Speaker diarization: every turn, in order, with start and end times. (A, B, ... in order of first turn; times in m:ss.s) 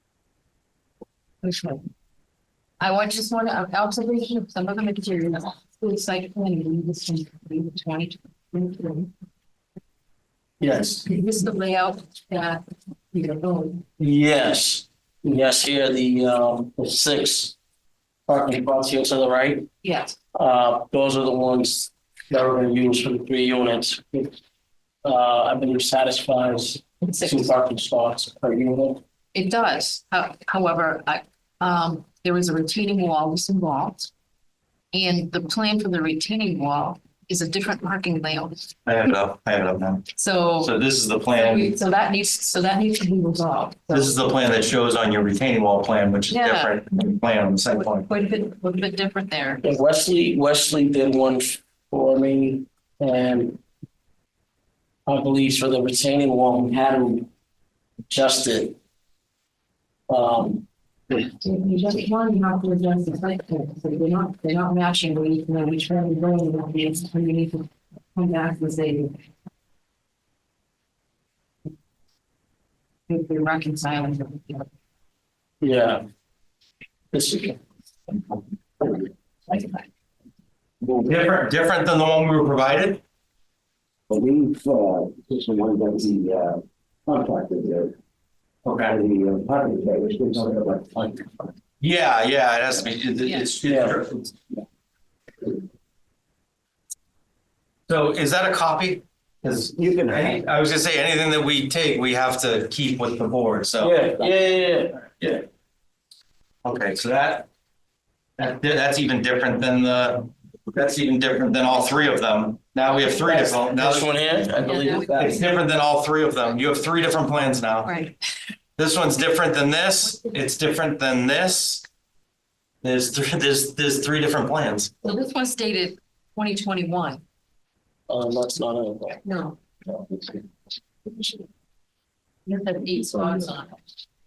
0:01.4-0:01.8 A
0:02.8-0:09.1 A
0:10.6-0:11.0 B
0:11.0-0:13.8 A
0:14.0-0:17.6 B
0:18.3-0:19.7 B
0:19.8-0:20.2 A
0:20.3-0:24.3 B
0:25.0-0:29.0 B
0:27.0-0:27.5 A
0:29.3-0:34.1 A
0:34.9-0:38.7 A
0:38.8-0:40.0 C
0:40.1-0:40.7 A
0:40.6-0:41.7 C
0:41.3-0:44.2 A
0:43.9-0:48.1 C
0:46.3-0:46.8 A
0:47.7-0:49.7 A
0:49.6-0:53.6 B
0:55.1-0:57.3 B
0:58.1-0:58.8 B
1:00.1-1:00.6 B
1:01.3-1:09.2 A
1:13.1-1:14.7 A
1:15.6-1:16.0 B
1:17.1-1:17.6 B
1:19.5-1:19.8 A
1:20.9-1:23.0 C
1:24.1-1:27.9 D
1:28.6-1:29.0 C
1:28.9-1:31.5 D
1:31.8-1:34.4 C
1:33.2-1:33.5 A
1:33.6-1:34.0 B
1:37.9-1:44.0 C
1:39.8-1:40.4 D
1:43.8-1:45.0 B
1:45.2-1:45.4 C
1:46.6-1:47.5 C
1:48.4-1:54.3 C
1:53.2-1:55.4 B
1:54.6-1:55.5 A
1:55.1-1:57.9 C
1:57.8-1:58.2 A
1:58.8-2:01.8 C
2:02.8-2:04.9 C
2:05.0-2:07.2 A
2:08.1-2:09.2 B
2:09.2-2:09.6 A
2:09.9-2:10.4 D
2:12.4-2:13.8 A